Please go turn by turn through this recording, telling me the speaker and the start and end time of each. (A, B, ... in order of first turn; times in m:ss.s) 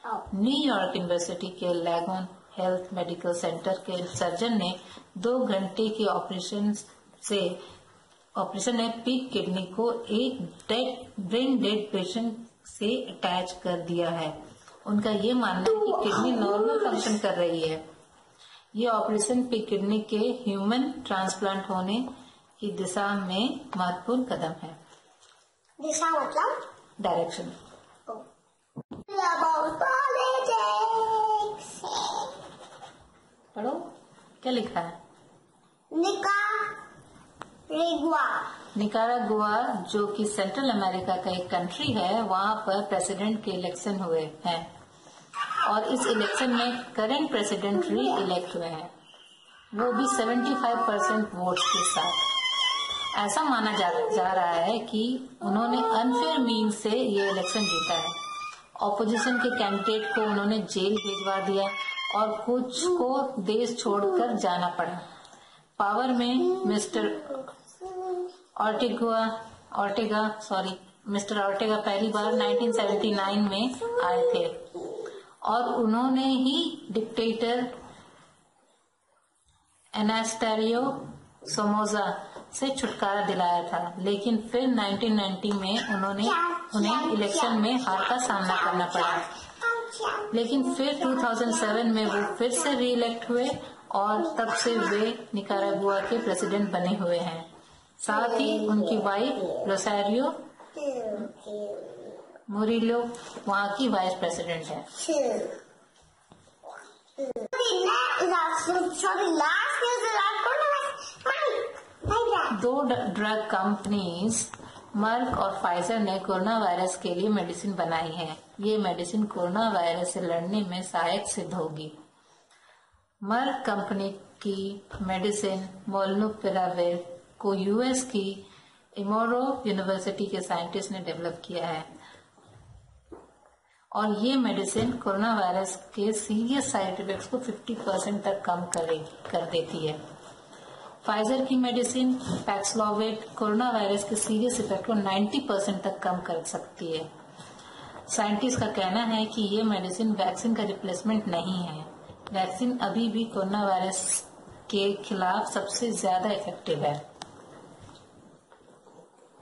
0:00.3-0:07.6 A
0:08.4-0:17.8 A
0:15.6-0:17.1 B
0:18.7-0:22.1 A
0:22.6-0:24.8 A
0:25.8-0:26.5 B
0:27.0-0:27.5 A
0:29.1-0:32.4 B
0:33.5-0:33.9 A
0:34.4-0:34.9 A
0:35.9-0:36.8 B
0:37.7-0:38.4 B
0:38.7-0:44.7 A
0:45.6-0:48.9 A
0:49.7-0:52.3 A
0:53.1-0:58.2 A
0:58.8-1:05.0 A
1:05.8-1:07.3 A
1:06.5-1:08.3 B
1:08.6-1:14.6 A
1:12.5-1:13.3 B
1:14.0-1:14.4 B
1:15.4-1:17.7 A
1:19.9-1:29.3 A
1:26.2-1:32.8 B
1:30.3-1:37.5 A
1:34.3-1:34.9 B
1:38.0-1:40.4 A
1:38.1-1:39.7 B
1:40.7-1:42.2 B
1:42.5-1:44.9 A
1:45.0-1:45.6 B
1:47.2-1:52.5 B
1:52.5-2:01.9 A
2:03.2-2:11.9 A
2:13.9-2:20.0 A
2:21.0-2:27.1 A
2:28.1-2:37.0 A